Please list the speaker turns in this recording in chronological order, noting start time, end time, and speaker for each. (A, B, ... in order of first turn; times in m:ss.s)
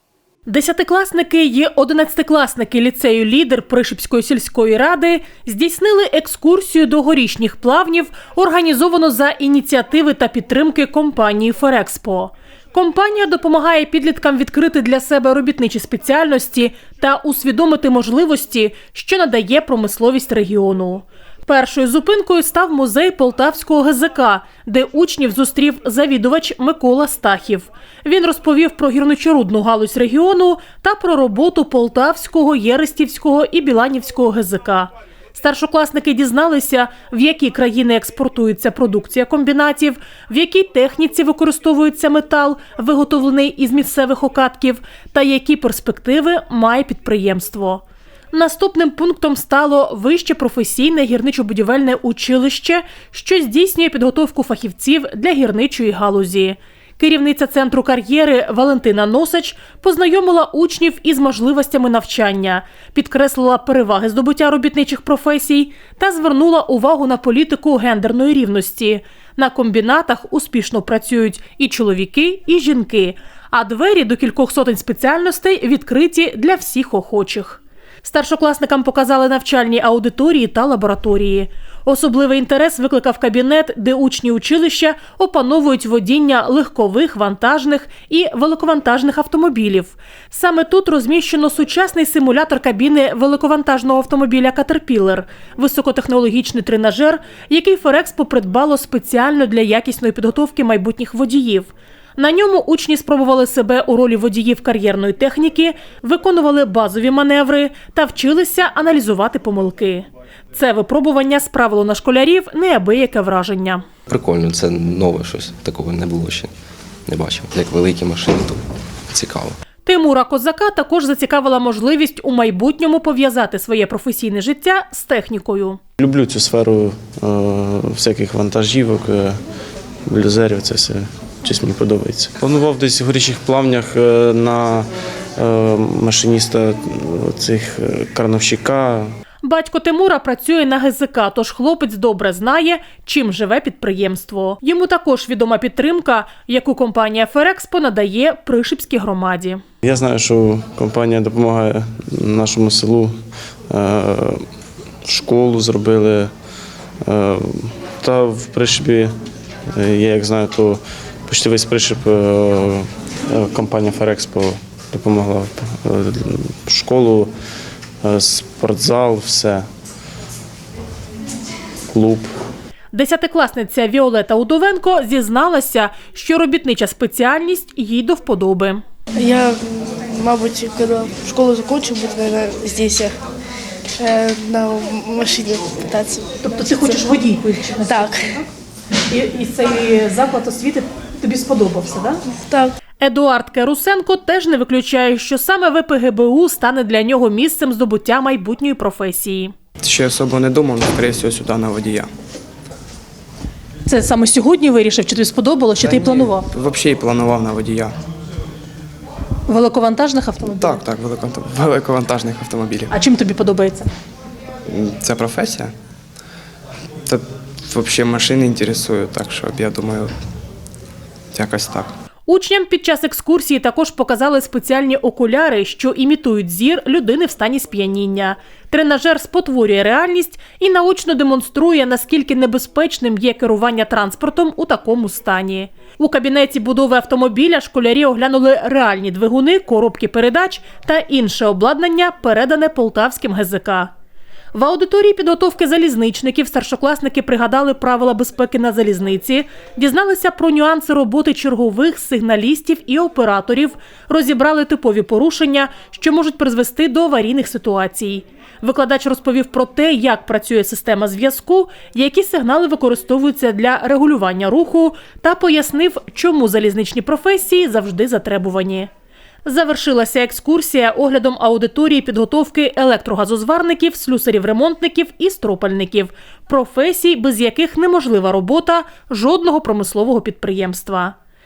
0:00.5-1:53.8 A
1:54.1-1:56.5 B
1:57.1-1:59.6 B
1:59.8-2:05.8 A
2:06.0-2:09.4 C
2:10.1-2:19.1 C
2:19.4-2:29.6 A
2:29.8-2:33.1 C
2:33.7-2:34.4 C
2:35.0-2:36.3 C
2:37.0-2:39.1 C
2:39.7-2:47.3 C
2:48.0-2:49.6 C
2:51.9-2:52.3 C
2:52.9-2:58.8 A
2:59.2-3:03.1 D
3:04.0-3:06.7 D
3:06.4-3:08.5 A
3:07.8-3:08.3 D
3:09.1-3:12.2 A
3:12.3-3:12.7 D
3:13.0-3:19.5 A
3:19.8-3:22.1 E
3:23.8-3:26.5 A
3:25.8-3:28.0 E
3:29.5-3:30.8 A
3:30.5-3:32.9 E
3:32.9-3:33.9 A
3:34.7-3:35.7 E
3:37.0-3:40.1 E
3:41.3-3:41.9 E
3:42.3-4:03.9 A
4:04.5-4:28.9 A
4:29.4-4:41.1 A